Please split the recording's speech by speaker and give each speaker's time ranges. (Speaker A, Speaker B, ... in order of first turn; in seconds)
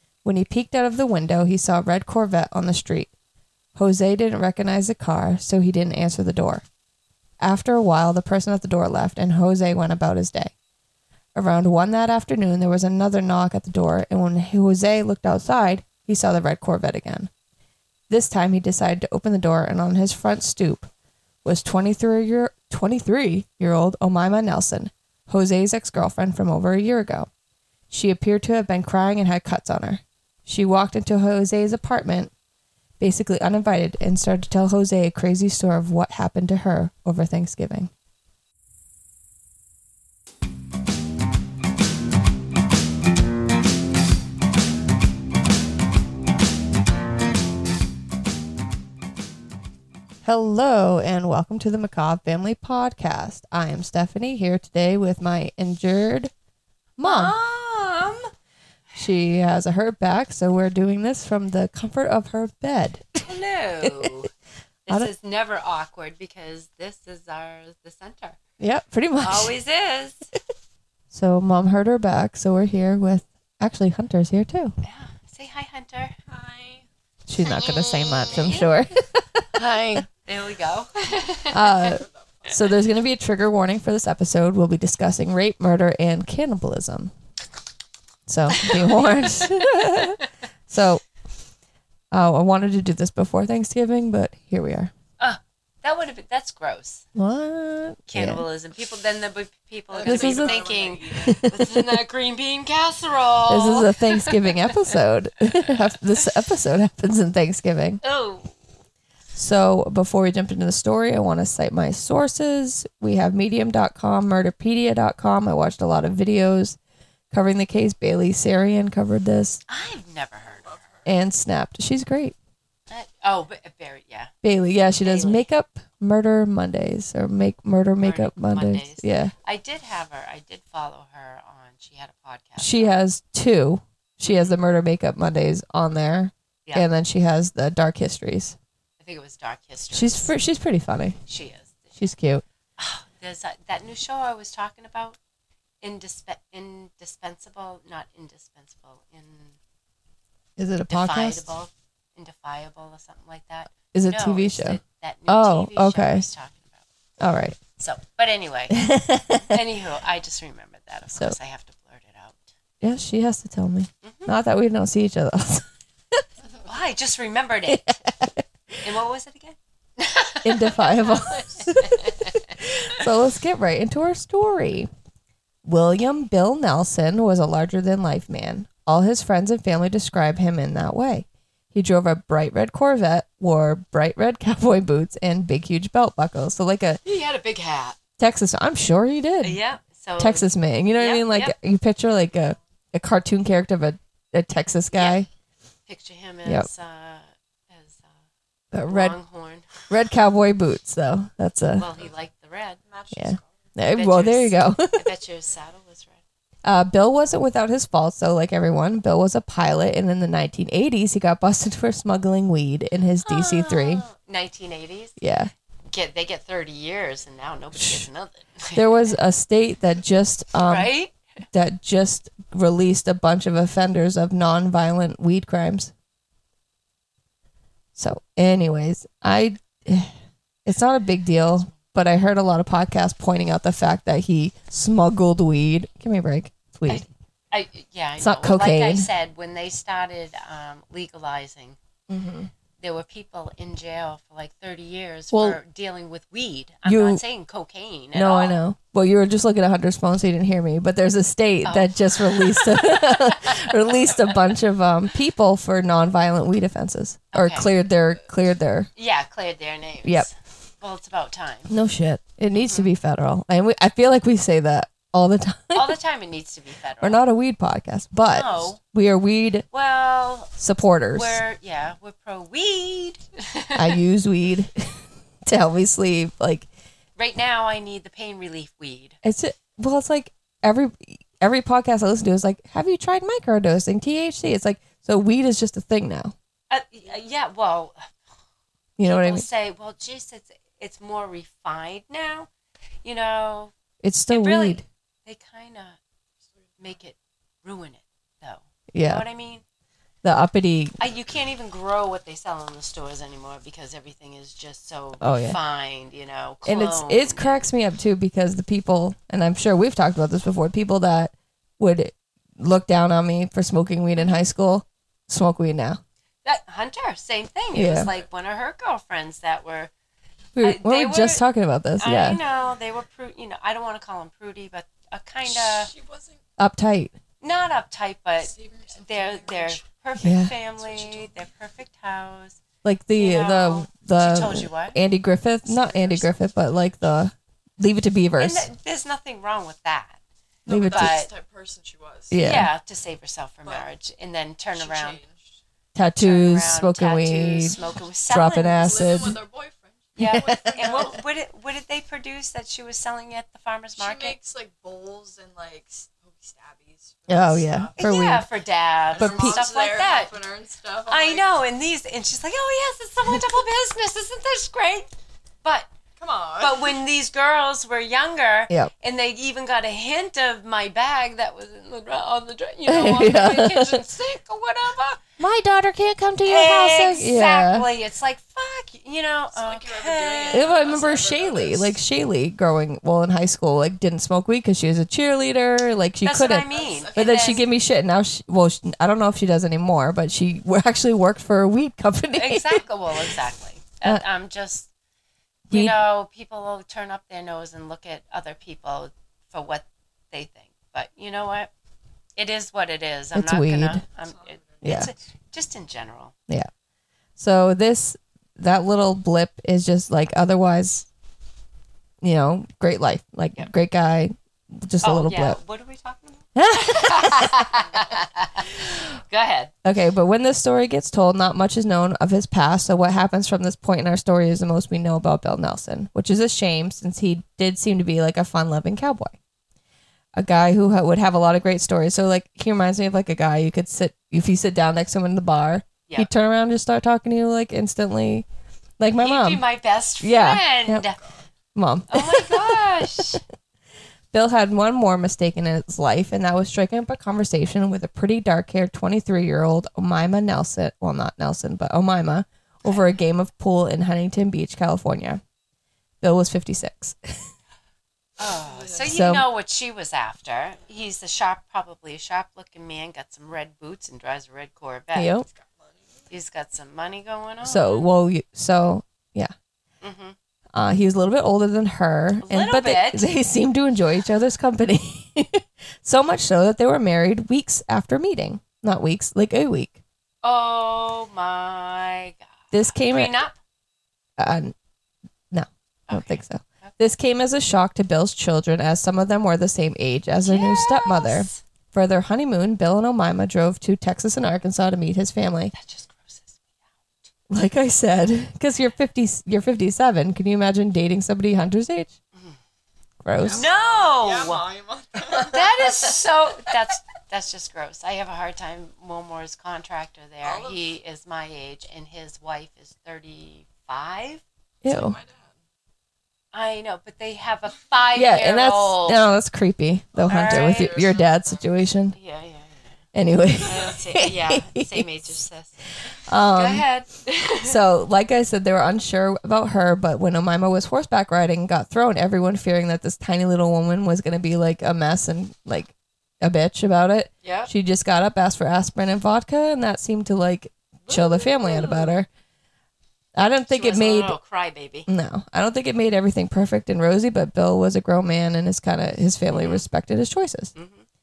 Speaker A: 0.2-3.1, 3.8-6.7, 7.4-10.5, 11.3-17.3, 18.1-20.9, 21.4-27.3, 27.9-32.3, 33.0-37.9, 50.2-56.3, 57.0-57.4, 59.0-63.3, 63.8-64.1, 68.6-69.5, 71.1-74.7, 77.3-80.0, 81.5-87.1, 88.3-91.0, 92.1-94.9, 97.2-98.4, 100.1-101.9, 103.5-108.0, 109.3-116.8, 117.3-119.6, 121.0-122.4, 124.4-129.3, 132.6-138.6, 139.9-141.2, 142.0-142.4, 150.6-151.5, 153.9-156.3, 157.2-157.6, 158.7-159.6, 162.8-166.2, 167.7-168.4, 170.4-174.9, 175.7-187.0, 188.2-189.6, 190.2-195.3, 198.7-199.2, 199.9-201.9, 203.1-205.1, 206.6-214.0, 215.2-215.5, 217.8-218.1, 218.8-220.9, 221.5-225.9, 228.0-230.1, 230.7-237.1, 238.2-239.1, 242.1-242.5, 245.3-245.6, 246.8-247.2, 248.1-258.9, 260.0-260.3, 261.7-266.0, 267.0-269.7, 270.6-271.4, 273.8-276.7, 279.2-286.3, 289.0-289.5, 294.0-294.9, 298.9-299.2, 300.2-301.0, 305.2-305.6, 306.6-316.0, 317.7-318.1, 320.6-322.4, 326.6-327.2, 330.2-330.5, 332.8-338.7, 340.7-341.2, 342.3-342.7, 345.9-347.8, 348.3-349.4, 350.2-351.1, 357.3-358.5, 359.2-359.6, 372.9-374.0, 375.4-377.9, 380.5-393.4, 395.7-396.0, 403.3-404.0, 404.8-405.1, 407.4-411.1, 412.2-415.6, 416.6-418.0, 419.8-429.4, 430.4-438.5, 439.0-439.6, 440.2-441.1, 441.8-443.4, 444.3-455.4, 456.2-457.3, 459.1-459.4, 465.1-465.5, 467.6-469.5, 470.7-480.0, 482.7-483.4, 484.4-484.8, 485.5-495.7, 497.5-502.1, 503.2-503.6, 514.8-515.2, 518.1-522.2, 523.1-525.1, 526.3-526.8, 527.6-542.3, 543.4-544.4, 545.1-550.7
Speaker B: 57.0-58.3, 63.2-64.3, 64.9-68.4, 69.2-70.3, 74.8-76.2, 77.4-78.7, 79.5-81.9, 88.5-90.3, 95.2-97.0, 98.1-104.9, 108.0-108.7, 119.7-120.9, 122.9-124.3, 125.0-125.5, 128.0-132.9, 139.0-140.3, 141.3-142.0, 142.8-145.2, 145.8-149.6, 150.9-156.8, 157.8-158.8, 159.4-162.5, 164.0-164.3, 166.6-168.0, 168.8-173.0, 187.0-188.0, 189.4-191.6, 194.9-195.2, 195.9-198.1, 198.9-199.9, 201.8-202.8, 203.9-206.2, 213.2-215.2, 215.9-219.1, 220.7-221.2, 236.9-241.8, 242.8-248.6, 251.6-254.4, 257.3-257.7, 259.0-261.7, 262.6-262.9, 265.8-267.2, 268.3-268.8, 269.7-270.5, 271.1-274.0, 277.2-279.2, 286.7-288.1, 289.0-292.5, 293.0-293.7, 294.3-296.0, 296.8-299.6, 301.0-307.7, 316.4-319.9, 320.6-321.4, 322.0-325.9, 327.4-332.6, 333.2-335.0, 335.7-336.1, 338.4-340.2, 340.9-341.3, 342.4-345.2, 346.2-349.1, 350.2-354.4, 358.0-360.4, 361.1-365.1, 365.6-365.9, 366.6-375.2, 376.4-380.9, 386.2-387.6, 392.3-394.9, 395.7-401.7, 402.4-406.3, 415.0-419.7, 439.2-441.2, 442.1-443.4, 452.9-453.1, 458.4-465.3, 466.3-468.1, 470.0-470.4, 472.4-473.3, 480.4-483.6, 486.1-487.0, 490.4-491.6, 495.7-496.7, 503.5-504.7, 505.4-514.4, 516.5-519.3, 520.2-521.1, 522.1-523.0, 523.6-525.8, 526.5-527.8, 537.4-537.7, 541.1-542.2, 543.7-545.1, 549.5-549.9, 550.8-551.0
Speaker C: 76.3-76.8, 99.9-101.5, 202.9-203.7, 317.9-318.3, 325.4-326.4, 328.4-329.9, 330.7-331.4, 335.8-336.3, 340.6-342.4, 344.7-345.6, 348.6-351.2, 354.0-358.0, 359.1-361.5, 366.2-367.0, 379.5-382.0, 386.6-387.7, 404.2-405.1, 458.4-459.1, 465.4-466.3, 503.4-506.0, 510.4-510.8, 514.9-515.6, 520.1-522.0